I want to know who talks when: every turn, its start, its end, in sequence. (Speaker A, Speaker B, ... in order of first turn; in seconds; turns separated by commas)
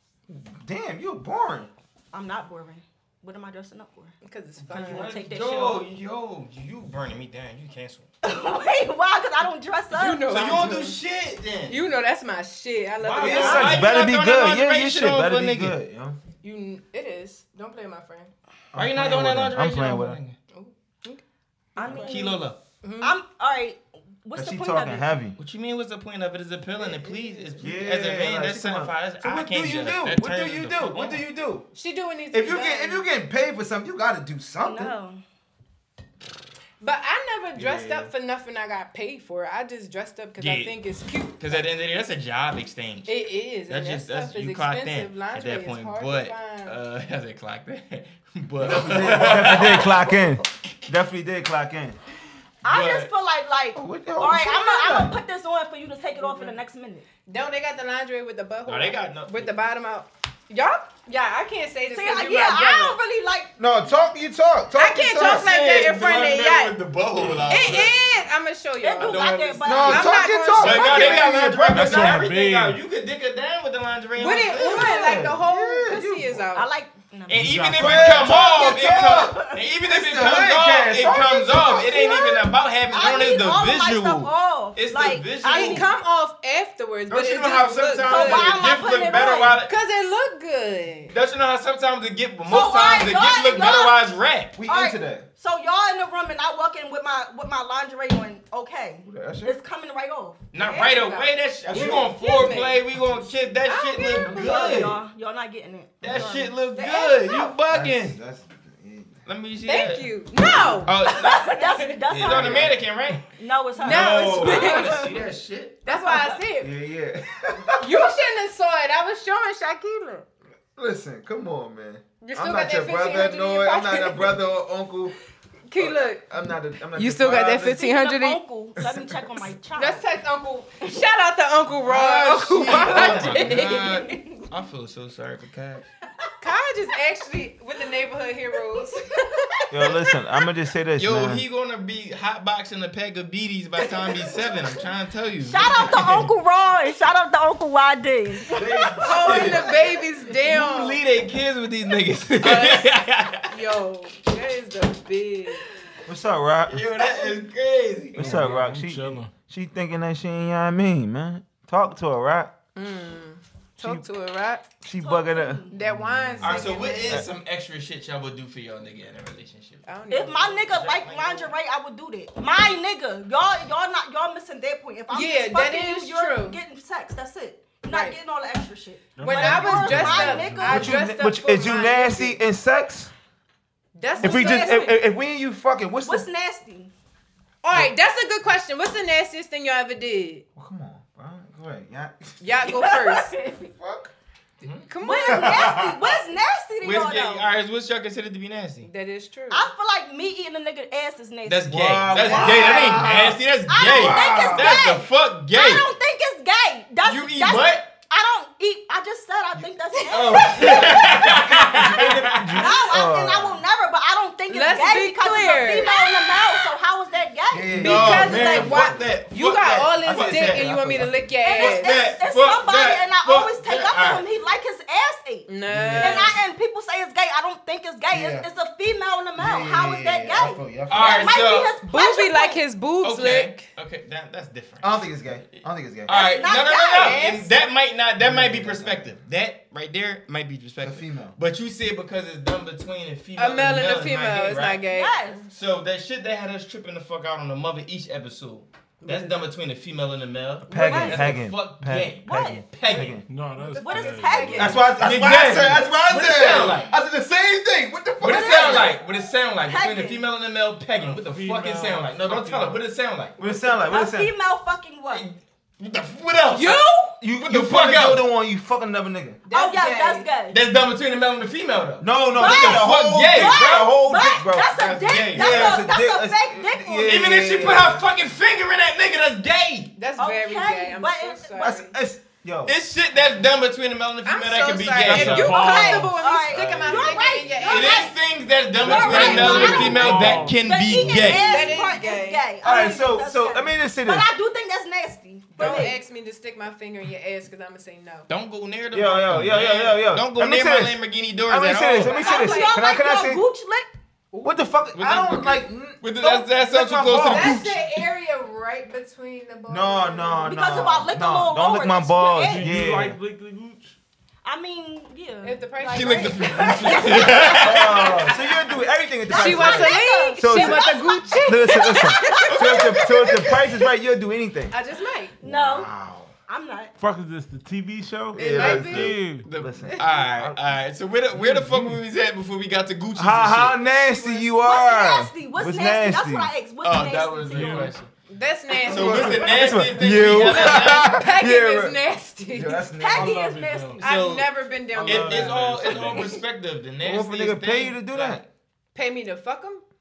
Speaker A: 0.3-1.7, Speaker B: 2.1-4.1, Speaker C: 4.2-5.2, Speaker D: 4.6-8.1, Speaker B: 4.7-5.8, Speaker B: 8.2-10.3, Speaker C: 9.9-11.0, Speaker D: 10.3-11.8, Speaker C: 11.7-13.9, Speaker D: 13.0-15.8, Speaker A: 13.2-16.2, Speaker C: 16.4-18.3, Speaker A: 18.7-20.2, Speaker D: 18.7-20.4, Speaker C: 20.5-21.2, Speaker B: 21.8-22.4, Speaker C: 21.8-23.1, Speaker D: 21.9-22.6, Speaker B: 23.0-25.1, Speaker A: 24.4-25.4, Speaker D: 25.4-31.2, Speaker C: 26.8-27.6, Speaker A: 27.6-31.7, Speaker C: 31.7-33.0, Speaker A: 32.3-34.9, Speaker B: 34.6-35.2, Speaker C: 36.8-41.6, Speaker A: 37.5-38.1, Speaker D: 40.4-40.8, Speaker D: 41.4-43.2, Speaker C: 43.0-46.8, Speaker D: 43.7-50.7, Speaker A: 48.6-52.0, Speaker B: 52.6-57.0, Speaker D: 52.6-53.1, Speaker A: 53.8-55.2, Speaker C: 56.1-56.6, Speaker C: 57.3-63.0, Speaker D: 58.6-59.5, Speaker B: 61.9-63.5, Speaker A: 63.6-65.5, Speaker C: 64.7-66.8, Speaker D: 65.2-68.0, Speaker C: 67.5-71.2, Speaker B: 68.8-71.2, Speaker D: 69.0-70.0, Speaker A: 69.6-72.3, Speaker D: 70.5-75.1, Speaker E: 71.7-72.8, Speaker C: 74.2-76.7, Speaker A: 74.6-76.4, Speaker B: 74.7-75.1, Speaker B: 76.5-77.5, Speaker D: 77.3-85.9, Speaker E: 77.3-78.2, Speaker A: 77.7-81.9, Speaker B: 78.1-79.6, Speaker B: 81.5-85.9, Speaker C: 85.4-88.8, Speaker D: 87.1-89.7, Speaker B: 88.0-89.6, Speaker C: 89.6-91.1, Speaker D: 91.1-94.5, Speaker B: 92.5-94.0, Speaker A: 94.5-95.2, Speaker B: 94.7-100.5, Speaker A: 99.0-99.6, Speaker D: 100.5-105.0, Speaker C: 100.6-102.8, Speaker A: 101.7-102.2, Speaker C: 103.6-104.8, Speaker B: 104.2-106.6, Speaker A: 104.5-104.9, Speaker D: 106.0-108.2, Speaker A: 106.0-106.3, Speaker C: 106.7-107.5, Speaker A: 107.7-109.2, Speaker D: 109.2-110.1, Speaker C: 109.6-112.0, Speaker D: 110.8-113.2, Speaker B: 111.2-112.8, Speaker A: 112.2-112.8, Speaker B: 113.3-115.2, Speaker C: 113.8-115.1, Speaker D: 113.8-115.8, Speaker A: 113.8-114.8, Speaker C: 115.8-116.7, Speaker B: 115.9-116.4, Speaker A: 116.6-118.1, Speaker C: 117.8-120.2, Speaker A: 120.8-125.1, Speaker C: 122.2-124.3, Speaker C: 125.7-126.2, Speaker A: 125.8-127.8, Speaker C: 126.9-128.4, Speaker B: 127.7-130.0, Speaker C: 129.7-133.9, Speaker D: 131.8-135.9, Speaker B: 132.8-134.4, Speaker C: 136.4-140.1, Speaker A: 139.7-141.4, Speaker D: 141.0-146.3, Speaker B: 145.4-148.7, Speaker A: 148.6-149.7, Speaker D: 148.6-153.5, Speaker C: 149.0-151.0, Speaker C: 152.4-155.6, Speaker A: 156.1-156.8, Speaker D: 156.7-158.4, Speaker A: 158.2-162.5, Speaker E: 158.2-159.3, Speaker C: 162.7-164.7, Speaker A: 163.8-164.1, Speaker A: 164.8-165.7, Speaker B: 165.0-165.8, Speaker C: 165.7-167.2, Speaker D: 166.4-169.8, Speaker C: 169.8-170.7, Speaker B: 170.1-181.0, Speaker D: 170.7-171.5, Speaker C: 175.1-176.6, Speaker C: 177.9-178.2, Speaker E: 179.2-180.9, Speaker C: 179.2-182.4, Speaker A: 180.6-183.1, Speaker C: 183.9-184.9, Speaker B: 184.2-184.9, Speaker A: 184.2-186.2, Speaker B: 186.0-186.9, Speaker C: 187.6-190.4, Speaker A: 190.6-192.5, Speaker C: 192.4-193.4, Speaker B: 192.6-193.7, Speaker A: 193.8-194.1, Speaker D: 194.6-194.9, Speaker C: 194.9-195.8, Speaker B: 195.0-197.5, Speaker A: 195.3-196.1, Speaker D: 196.8-198.9, Speaker C: 198.8-199.7, Speaker B: 199.5-203.1, Speaker D: 201.4-205.8, Speaker A: 201.7-204.8, Speaker B: 203.7-211.3, Speaker D: 207.0-207.9, Speaker D: 210.1-212.6, Speaker C: 210.4-210.7, Speaker A: 210.5-213.6, Speaker B: 212.6-218.5, Speaker C: 214.5-216.6, Speaker A: 217.5-219.0, Speaker C: 217.7-222.1, Speaker D: 217.8-220.7, Speaker A: 220.0-221.2, Speaker B: 221.4-232.6, Speaker D: 221.5-224.2, Speaker C: 225.5-226.4, Speaker A: 225.7-226.4, Speaker A: 228.1-228.5, Speaker A: 229.3-231.3, Speaker D: 230.9-231.7, Speaker C: 231.8-233.7, Speaker D: 233.0-244.8, Speaker A: 234.8-236.1, Speaker B: 236.1-237.3, Speaker C: 236.9-237.5, Speaker A: 238.2-239.2, Speaker A: 240.8-241.3, Speaker C: 243.4-245.4, Speaker B: 244.9-245.5, Speaker D: 245.5-253.2, Speaker C: 249.0-249.4, Speaker A: 250.7-253.2, Speaker B: 250.7-251.3, Speaker C: 250.8-251.2, Speaker B: 252.2-252.7, Speaker E: 253.3-254.8, Speaker C: 253.6-254.9, Speaker B: 253.8-254.9, Speaker A: 254.6-258.9, Speaker D: 255.0-256.9, Speaker D: 258.2-263.4, Speaker B: 258.2-259.1, Speaker B: 259.6-260.2, Speaker E: 261.0-262.8, Speaker A: 263.4-264.3, Speaker B: 263.9-265.2, Speaker D: 265.1-266.8, Speaker C: 266.5-267.1, Speaker A: 267.2-269.4, Speaker D: 267.4-268.2, Speaker C: 269.4-270.3, Speaker B: 269.5-270.6, Speaker D: 270.5-273.9, Speaker A: 272.0-278.0, Speaker B: 272.4-277.7, Speaker D: 274.6-275.8, Speaker D: 277.0-279.9, Speaker C: 279.9-281.9, Speaker B: 280.2-281.7, Speaker A: 281.6-282.7, Speaker D: 282.6-285.6, Speaker C: 284.2-288.1, Speaker E: 285.0-287.4, Speaker B: 285.4-288.1, Speaker D: 287.6-291.7, Speaker B: 288.8-296.0, Speaker E: 288.9-290.6, Speaker C: 289.1-290.0, Speaker A: 289.1-289.6, Speaker C: 290.9-292.5, Speaker A: 292.6-294.3, Speaker C: 295.5-298.3, Speaker D: 298.3-302.2, Speaker A: 298.9-303.4, Speaker C: 302.0-302.9, Speaker B: 302.1-303.9, Speaker C: 304.3-304.6, Speaker A: 304.4-307.8, Speaker D: 304.9-307.8, Speaker C: 305.1-305.6, Speaker C: 307.1-310.7, Speaker A: 309.7-313.2, Speaker B: 310.4-312.8, Speaker E: 312.4-314.0, Speaker B: 314.4-317.7, Speaker C: 315.4-317.5, Speaker D: 315.8-318.5, Speaker A: 317.5-320.9, Speaker C: 319.3-323.6, Speaker B: 319.3-323.3, Speaker A: 321.4-324.7, Speaker C: 324.7-325.4, Speaker B: 325.4-325.9, Speaker A: 325.4-326.3, Speaker B: 326.5-326.9, Speaker E: 327.0-329.5, Speaker A: 328.3-330.6, Speaker C: 328.4-329.2, Speaker D: 329.4-333.8, Speaker C: 329.8-330.3, Speaker E: 331.3-332.0, Speaker A: 333.1-336.5, Speaker C: 333.8-334.5, Speaker B: 334.6-337.9, Speaker D: 336.8-338.1, Speaker E: 337.5-337.9, Speaker C: 338.3-342.9, Speaker A: 338.8-342.0, Speaker D: 338.8-341.2, Speaker A: 342.5-343.4, Speaker B: 343.0-344.3, Speaker E: 343.1-344.0, Speaker C: 344.0-345.6, Speaker D: 344.0-348.5, Speaker A: 344.9-345.5, Speaker E: 345.3-346.3, Speaker A: 347.0-348.4, Speaker C: 348.9-349.8